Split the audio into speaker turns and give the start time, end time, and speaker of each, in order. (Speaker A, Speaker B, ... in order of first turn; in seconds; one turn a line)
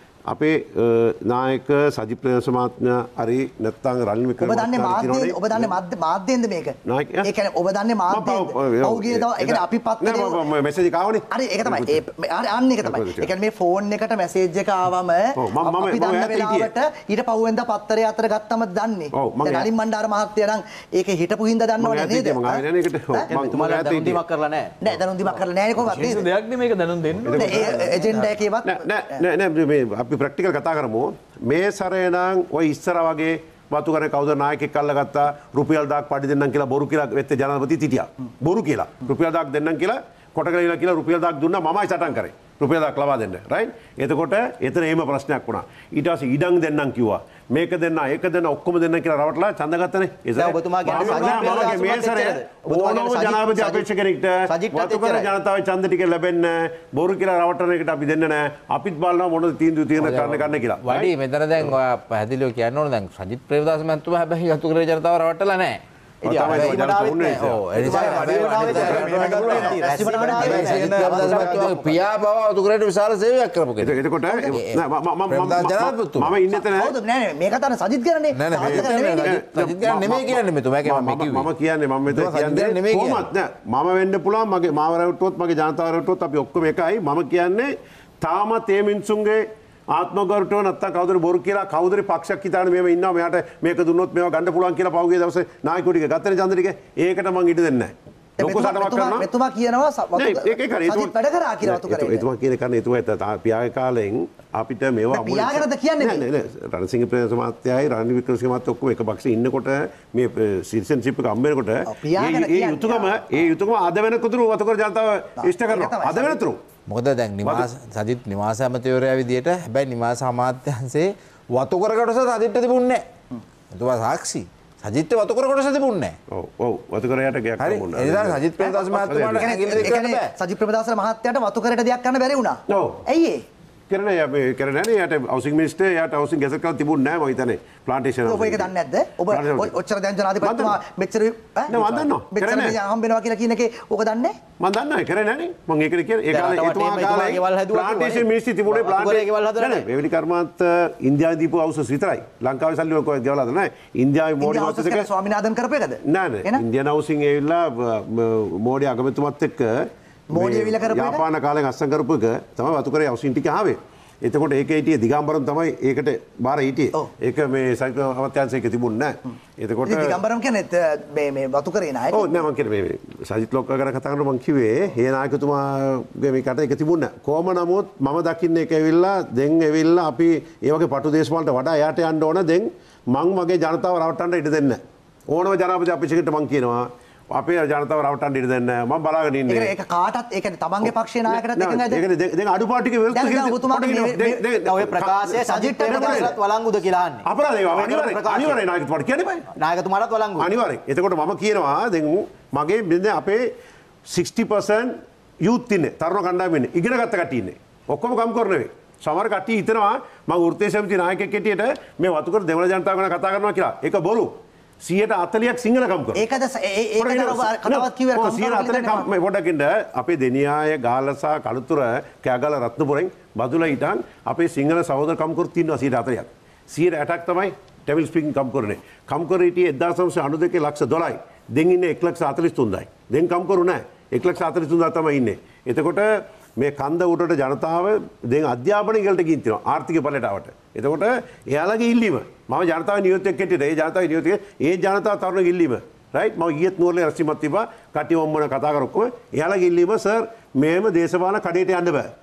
Speaker A: 0.3-5.8
Speaker B: 4.4-10.4
Speaker A: 6.8-7.3
Speaker A: 8.1-12.0
Speaker B: 11.3-22.6
Speaker A: 12.8-13.3
Speaker A: 15.4-16.7
Speaker A: 19.1-19.7
Speaker A: 21.8-24.2
Speaker C: 23.3-24.7
Speaker B: 24.8-26.3
Speaker D: 25.8-28.3
Speaker A: 27.2-61.1
Speaker B: 27.3-29.2
Speaker C: 50.4-53.9
Speaker C: 54.5-55.3
Speaker E: 60.0-65.8
Speaker C: 66.2-71.7
Speaker A: 66.2-67.6
Speaker E: 66.3-69.7
Speaker D: 68.0-71.7
Speaker B: 68.5-71.2
Speaker E: 70.4-76.3
Speaker A: 73.8-76.9
Speaker B: 76.5-79.3
Speaker E: 78.3-81.5
Speaker A: 78.6-99.3
Speaker E: 82.0-83.3
Speaker B: 98.4-102.2
Speaker A: 100.2-116.6
Speaker B: 105.1-106.2
Speaker B: 111.9-113.4
Speaker B: 115.4-116.4
Speaker E: 116.9-123.0
Speaker E: 123.7-126.2
Speaker A: 126.3-129.9
Speaker E: 127.6-130.3
Speaker B: 128.6-133.4
Speaker A: 132.7-133.0
Speaker A: 133.9-138.7
Speaker B: 138.2-141.8
Speaker A: 139.3-139.7
Speaker A: 140.4-140.8
Speaker A: 141.7-142.8
Speaker C: 141.7-142.1
Speaker B: 142.3-144.4
Speaker A: 144.6-155.1
Speaker C: 146.3-149.9
Speaker B: 154.4-156.6
Speaker A: 156.1-170.2
Speaker B: 160.3-161.2
Speaker B: 169.8-172.4
Speaker A: 172.1-189.7
Speaker B: 189.5-192.0
Speaker A: 190.8-196.3
Speaker B: 193.1-194.4
Speaker C: 194.7-198.6
Speaker B: 195.4-196.3
Speaker A: 197.2-199.4
Speaker C: 199.6-200.5
Speaker A: 200.4-203.5
Speaker A: 204.1-204.9
Speaker A: 205.4-216.2
Speaker B: 216.1-219.1
Speaker A: 217.0-252.1